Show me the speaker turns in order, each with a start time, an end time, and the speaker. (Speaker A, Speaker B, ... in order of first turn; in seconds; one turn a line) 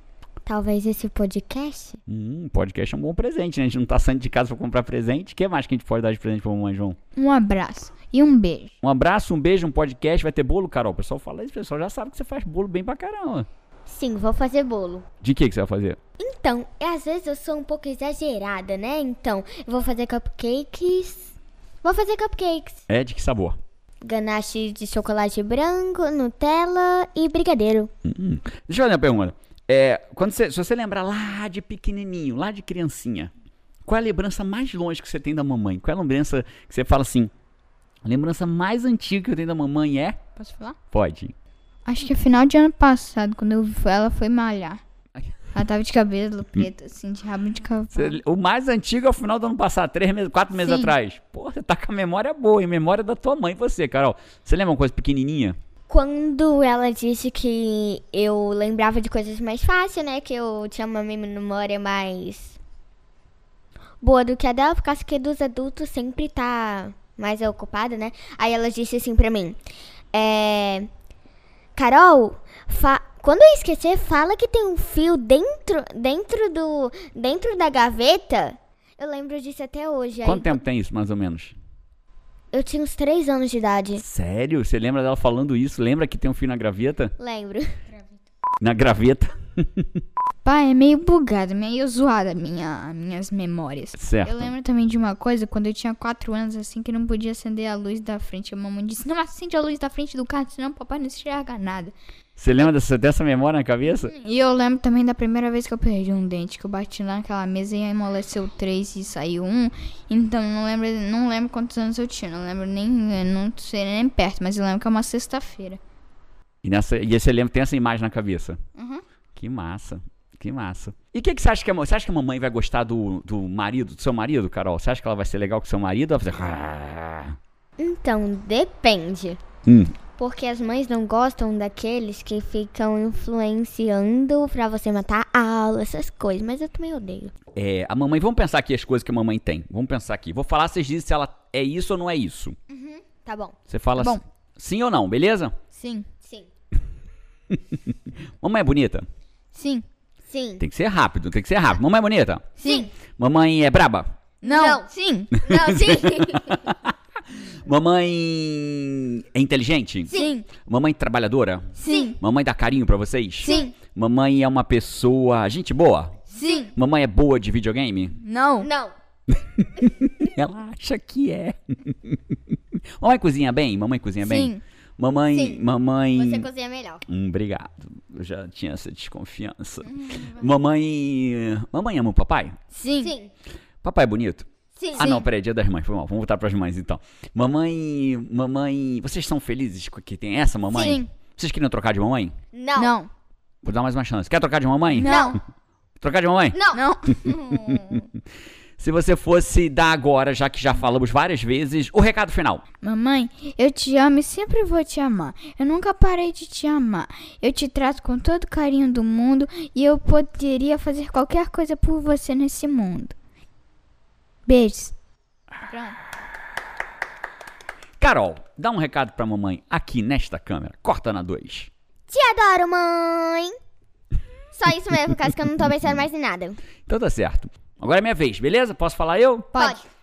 Speaker A: 0.5-2.0
Speaker B: 2.1-7.0
Speaker C: 7.2-8.7
Speaker B: 8.8-13.5
Speaker A: 13.8-15.1
Speaker B: 15.2-16.0
Speaker A: 16.2-22.8
Speaker B: 22.9-23.6
Speaker A: 24.0-27.9
Speaker B: 28.0-33.3
Speaker B: 33.9-37.3
Speaker B: 38.0-40.2
Speaker C: 40.4-40.8
Speaker B: 40.9-41.3
Speaker C: 41.9-44.8
Speaker C: 45.5-48.2
Speaker B: 47.9-55.6
Speaker C: 50.5-50.9
Speaker A: 55.9-62.6
Speaker A: 64.0-69.6
Speaker A: 70.1-70.9
Speaker A: 71.8-80.6
Speaker B: 80.2-81.5
Speaker A: 82.5-84.0
Speaker B: 84.0-87.1
Speaker A: 87.2-87.8
Speaker B: 88.6-89.8
Speaker C: 90.4-101.9
Speaker B: 94.0-94.5
Speaker B: 102.4-104.1
Speaker C: 104.0-115.8
Speaker B: 116.6-118.6
Speaker C: 118.8-119.0
Speaker B: 119.3-127.3
Speaker A: 127.8-129.4
Speaker B: 129.7-129.9
Speaker A: 130.2-137.3
Speaker B: 137.6-142.6
Speaker A: 142.7-143.6
Speaker B: 143.7-145.5
Speaker C: 145.7-146.1
Speaker A: 146.2-146.5
Speaker B: 148.4-149.1
Speaker C: 149.5-149.8
Speaker A: 150.3-150.6
Speaker B: 150.6-152.5
Speaker C: 152.6-152.9
Speaker A: 152.6-152.9
Speaker B: 153.2-154.1
Speaker C: 154.4-155.3
Speaker A: 154.4-156.8
Speaker B: 155.8-166.2
Speaker C: 160.1-160.5
Speaker C: 161.8-162.2
Speaker A: 161.8-162.1
Speaker C: 163.4-163.7
Speaker A: 163.4-163.7
Speaker C: 166.3-166.7
Speaker B: 166.7-168.2
Speaker C: 168.2-168.7
Speaker A: 168.6-168.9
Speaker B: 169.4-172.2
Speaker B: 173.0-176.5
Speaker C: 174.2-174.6
Speaker A: 175.3-175.6
Speaker A: 176.1-177.0
Speaker B: 177.1-182.6
Speaker C: 179.8-180.4
Speaker C: 182.7-183.1
Speaker A: 183.0-183.3
Speaker B: 183.8-192.3
Speaker A: 184.8-185.2
Speaker C: 185.0-185.3
Speaker A: 190.7-191.0
Speaker C: 190.7-191.1
Speaker A: 192.5-192.9
Speaker C: 192.8-193.1
Speaker B: 193.6-195.2
Speaker C: 194.9-195.4
Speaker A: 195.0-195.4
Speaker B: 196.0-196.6
Speaker A: 196.5-198.0
Speaker C: 196.7-197.3
Speaker B: 197.2-198.0
Speaker B: 198.8-202.6
Speaker C: 202.8-213.1
Speaker C: 214.4-214.9
Speaker C: 215.6-216.0
Speaker B: 218.0-221.7
Speaker A: 222.1-223.5
Speaker A: 224.5-226.6
Speaker B: 226.9-229.5
Speaker C: 229.5-229.8
Speaker A: 229.5-229.8